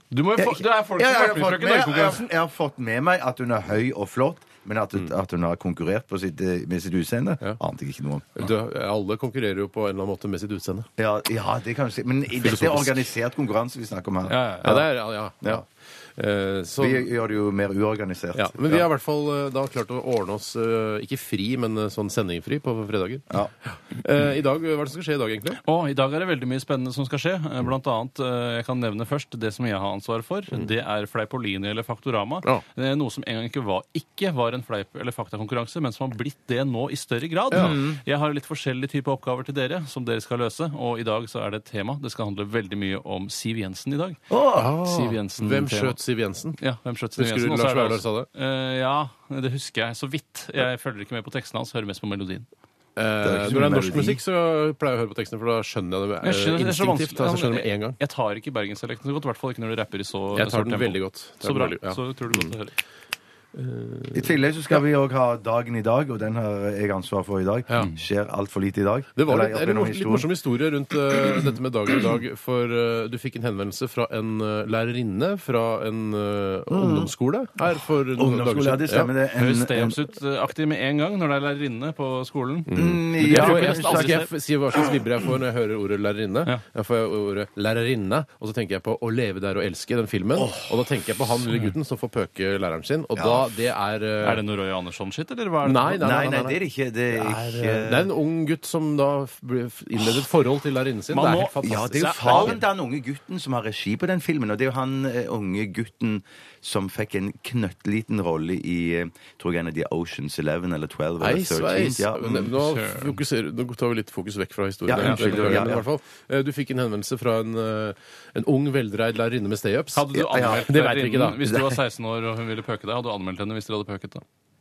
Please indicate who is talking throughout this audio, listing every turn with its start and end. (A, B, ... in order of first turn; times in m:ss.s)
0:00.1-0:02.3 A
0:00.4-0:08.5 B
0:08.4-0:10.9 C
0:11.0-0:14.6 B
0:12.4-0:13.1 C
0:14.2-0:14.8 A
0:14.6-0:17.1 C
0:16.8-0:18.8 B
0:18.3-0:25.6 C
0:25.6-0:44.2 A
0:37.5-0:38.0 B
0:44.3-0:44.7 B
0:44.6-0:46.6 C
0:44.8-0:46.0 A
0:46.6-0:52.4 A
0:47.2-0:48.3 C
0:53.0-0:58.0 C
0:53.2-0:54.2 B
0:56.2-1:02.7 A
1:00.3-1:02.5 C
1:03.5-1:04.8 C
1:04.2-1:10.3 B
1:09.2-1:19.1 C
1:11.2-1:11.4 B
1:16.7-1:17.1 B
1:18.1-1:20.0 B
1:19.4-1:24.3 A
1:22.7-1:34.4 C
1:22.7-1:24.2 B
1:30.4-1:30.6 B
1:33.2-1:33.5 B
1:34.2-1:36.0 A
1:35.6-1:36.6 C
1:36.0-1:38.1 B
1:37.1-1:42.6 C
1:41.1-1:42.6 A
1:41.6-1:52.4 B
1:51.2-2:01.4 C
1:52.2-1:53.2 A
1:54.8-1:55.8 B
1:55.0-1:55.7 A
1:59.9-2:04.2 A
2:00.3-2:00.7 B
2:01.4-2:01.8 B